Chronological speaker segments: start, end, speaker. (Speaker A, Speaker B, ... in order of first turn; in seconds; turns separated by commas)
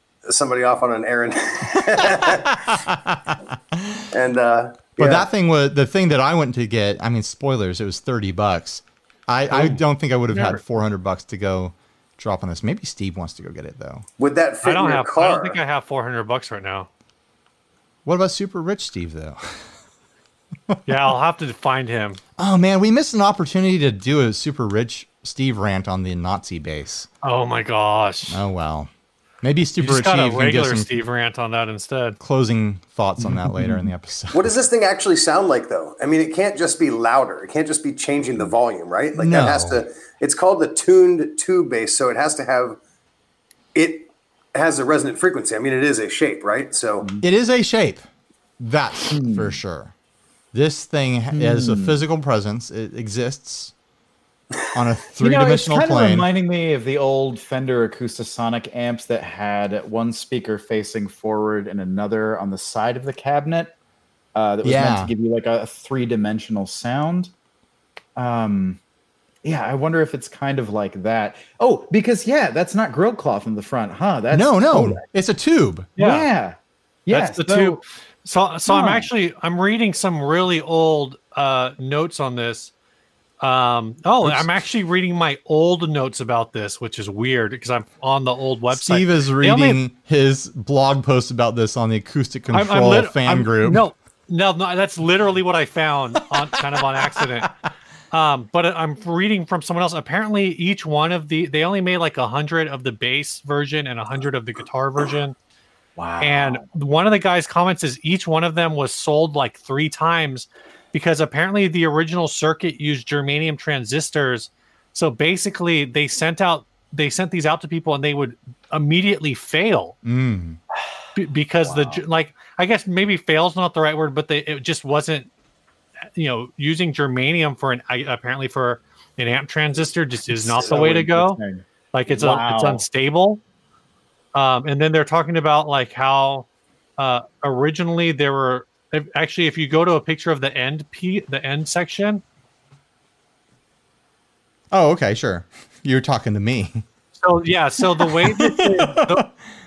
Speaker A: 0.3-2.6, Speaker B: 2.2-4.1, Speaker A: 4.1-5.3, Speaker B: 5.0-14.1, Speaker C: 9.5-10.6, Speaker A: 14.2-15.6, Speaker C: 14.6-16.9, Speaker B: 18.1-19.6, Speaker C: 20.9-22.2, Speaker B: 22.4-27.1, Speaker C: 27.2-28.4, Speaker B: 28.3-28.9, Speaker B: 29.4-30.9, Speaker C: 29.8-32.2, Speaker B: 32.2-34.5, Speaker D: 33.2-33.9, Speaker A: 34.3-42.8, Speaker B: 39.1-39.8, Speaker A: 43.7-47.1, Speaker B: 47.2-48.0, Speaker B: 48.6-49.9, Speaker D: 49.1-49.6, Speaker B: 50.5-53.7, Speaker D: 51.3-52.0, Speaker B: 54.7-56.3, Speaker D: 55.2-63.7, Speaker D: 64.3-67.3, Speaker B: 64.6-65.1, Speaker D: 68.2-68.8, Speaker D: 69.4-75.0, Speaker B: 74.3-75.9, Speaker C: 76.0-76.3, Speaker D: 76.0-77.8, Speaker C: 77.1-82.7, Speaker D: 78.7-79.1, Speaker C: 83.4-89.8, Speaker B: 88.7-93.8, Speaker C: 92.5-97.5, Speaker C: 98.1-105.4, Speaker D: 106.0-106.6, Speaker C: 106.2-120.0, Speaker B: 120.0-120.6, Speaker C: 121.1-125.3, Speaker D: 121.6-122.0, Speaker C: 126.1-131.4, Speaker D: 130.3-132.8, Speaker C: 131.9-133.4, Speaker C: 134.3-136.5, Speaker C: 137.0-142.2, Speaker B: 144.7-146.8, Speaker C: 147.2-149.3, Speaker B: 147.8-149.2